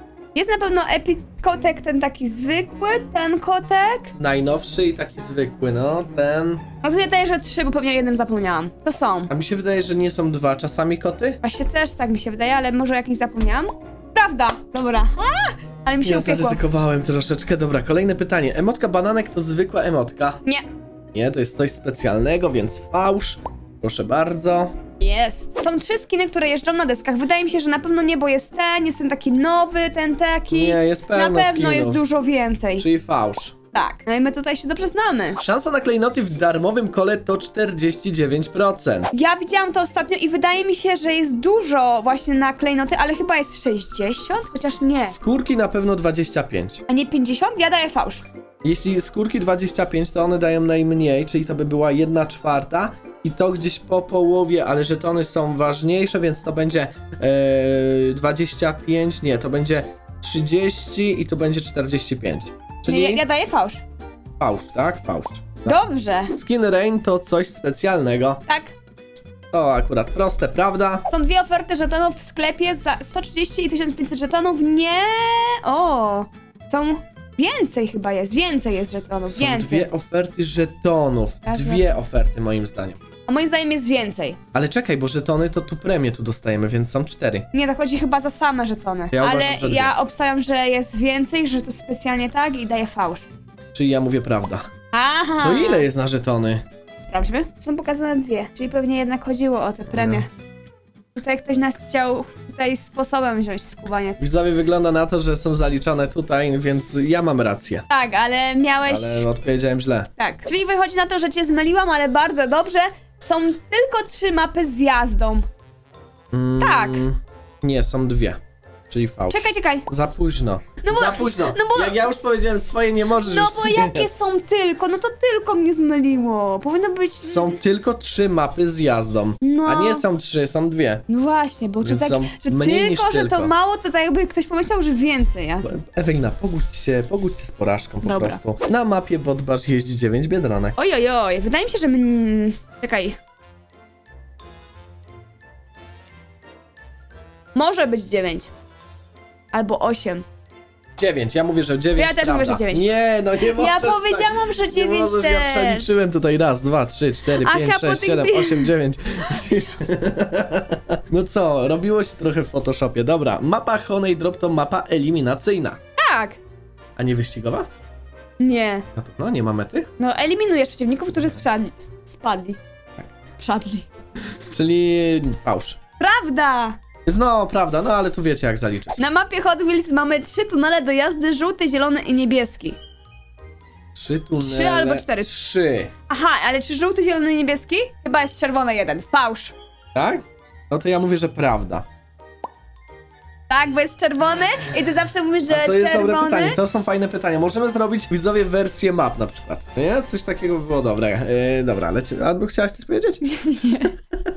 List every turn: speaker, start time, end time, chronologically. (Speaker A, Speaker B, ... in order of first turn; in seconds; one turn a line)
Speaker A: 0.3-4.1
Speaker B: 4.2-6.6
Speaker A: 6.8-9.3
Speaker B: 9.3-11.4
Speaker A: 11.4-16.6
Speaker B: 16.0-20.4
Speaker B: 21.1-24.7
Speaker A: 25.0-32.9
Speaker B: 30.5-32.0
Speaker B: 32.8-33.5
Speaker A: 33.7-35.4
Speaker B: 35.4-39.1
Speaker A: 39.1-45.2
Speaker B: 45.0-46.8
Speaker A: 46.9-48.2
Speaker B: 48.6-63.2
Speaker A: 62.9-63.8
Speaker B: 64.4-65.8
Speaker A: 65.6-66.3
Speaker B: 66.3-68.4
Speaker A: 68.5-68.7
Speaker B: 69.5-71.1
Speaker A: 71.1-79.9
Speaker B: 79.3-83.0
Speaker A: 81.5-81.9
Speaker A: 83.3-84.4
Speaker B: 84.5-87.5
Speaker A: 87.5-93.2
Speaker B: 89.1-89.9
Speaker B: 93.7-94.7
Speaker A: 94.9-95.9
Speaker B: 95.4-96.6
Speaker A: 97.1-100.3
Speaker B: 99.9-100.2
Speaker A: 101.1-104.2
Speaker B: 104.2-107.9
Speaker A: 107.9-109.2
Speaker B: 108.9-110.1
Speaker A: 110.2-115.5
Speaker B: 116.3-118.4
Speaker A: 116.6-117.0
Speaker B: 118.9-124.1
Speaker A: 119.3-119.9
Speaker A: 120.8-122.0
Speaker A: 123.2-127.6
Speaker B: 127.2-131.0
Speaker A: 129.4-130.1
Speaker A: 131.1-135.7
Speaker B: 131.8-133.5
Speaker B: 135.6-140.8
Speaker A: 138.0-138.4
Speaker A: 140.8-143.2
Speaker A: 147.6-148.5
Speaker A: 149.5-150.2
Speaker B: 151.0-165.8
Speaker A: 151.9-152.9
Speaker A: 153.4-155.9
Speaker A: 157.4-158.7
Speaker A: 166.0-166.4
Speaker B: 167.0-167.7
Speaker A: 168.4-168.9
Speaker B: 168.9-169.9
Speaker A: 170.0-172.6
Speaker A: 173.2-173.9
Speaker B: 174.3-175.8
Speaker A: 176.0-176.8
Speaker B: 177.1-179.0
Speaker A: 179.0-182.8
Speaker B: 183.9-185.9
Speaker A: 184.4-185.3
Speaker A: 186.1-189.5
Speaker B: 189.9-191.9
Speaker A: 193.5-196.6
Speaker B: 195.5-203.3
Speaker A: 203.2-203.9